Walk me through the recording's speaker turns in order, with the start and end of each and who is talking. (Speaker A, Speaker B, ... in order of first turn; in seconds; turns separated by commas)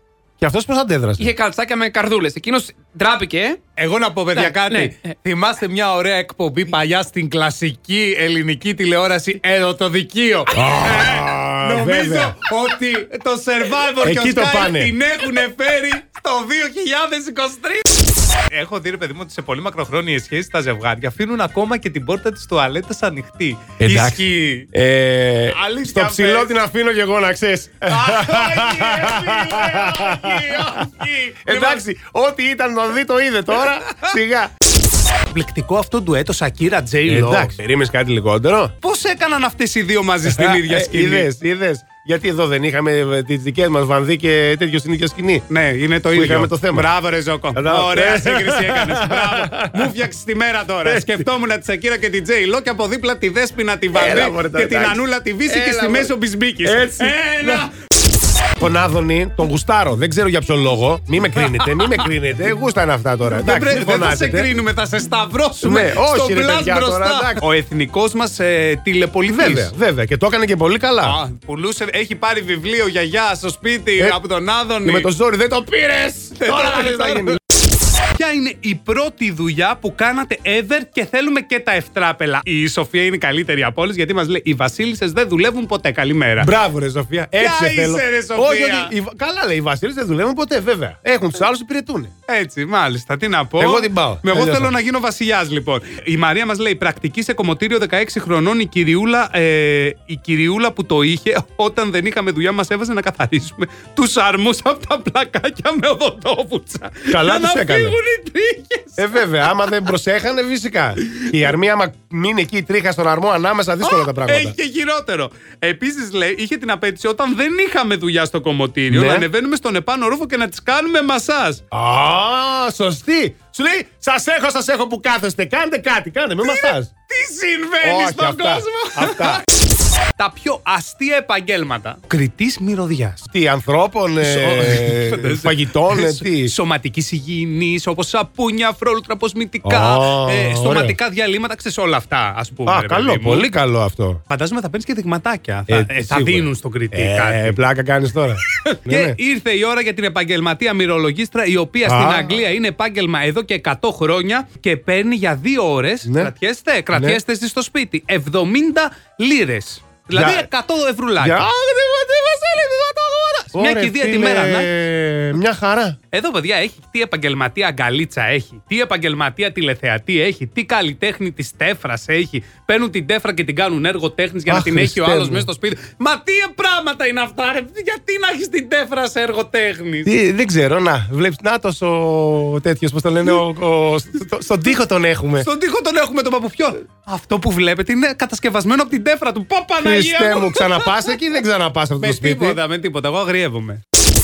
Speaker A: 0.4-1.3, Speaker B: 1.2-3.6, Speaker C: 3.8-24.7, Speaker B: 4.3-5.0, Speaker A: 10.5-12.3, Speaker A: 14.0-14.9, Speaker A: 23.8-24.2, Speaker A: 24.7-30.9, Speaker C: 25.5-26.6, Speaker C: 27.9-31.8, Speaker A: 31.4-34.5, Speaker C: 35.3-37.5, Speaker A: 37.1-38.7, Speaker C: 38.8-41.3, Speaker A: 40.2-45.5, Speaker C: 45.5-57.7, Speaker A: 46.1-46.9, Speaker A: 47.5-49.9, Speaker A: 50.8-51.2, Speaker A: 53.9-56.1, Speaker A: 56.6-57.7, Speaker A: 58.6-64.5, Speaker C: 61.4-62.0, Speaker C: 63.3-69.7, Speaker A: 65.6-67.4, Speaker A: 69.4-71.2, Speaker C: 71.0-75.1, Speaker A: 74.8-77.4, Speaker C: 76.4-77.4, Speaker C: 78.1-86.5, Speaker A: 86.4-92.1, Speaker C: 87.4-88.9, Speaker C: 92.3-109.2, Speaker A: 93.6-94.7, Speaker A: 107.1-108.0, Speaker A: 109.0-114.5, Speaker C: 111.0-111.4, Speaker C: 113.8-121.6, Speaker A: 118.9-119.3, Speaker A: 121.7-126.9, Speaker C: 126.4-129.4, Speaker A: 127.8-129.4, Speaker C: 130.2-133.2, Speaker A: 133.3-136.5, Speaker C: 134.2-143.5, Speaker A: 139.6-140.9, Speaker A: 142.7-144.2, Speaker C: 144.3-147.6, Speaker A: 145.7-149.1, Speaker C: 148.5-161.5, Speaker A: 151.8-152.4, Speaker A: 156.0-156.3, Speaker A: 156.9-157.2, Speaker A: 160.1-160.5, Speaker A: 161.2-166.0, Speaker C: 163.5-164.7, Speaker C: 166.1-180.1, Speaker A: 174.5-175.5, Speaker A: 180.0-185.5, Speaker C: 185.4-191.1, Speaker A: 189.8-192.6, Speaker C: 192.0-193.8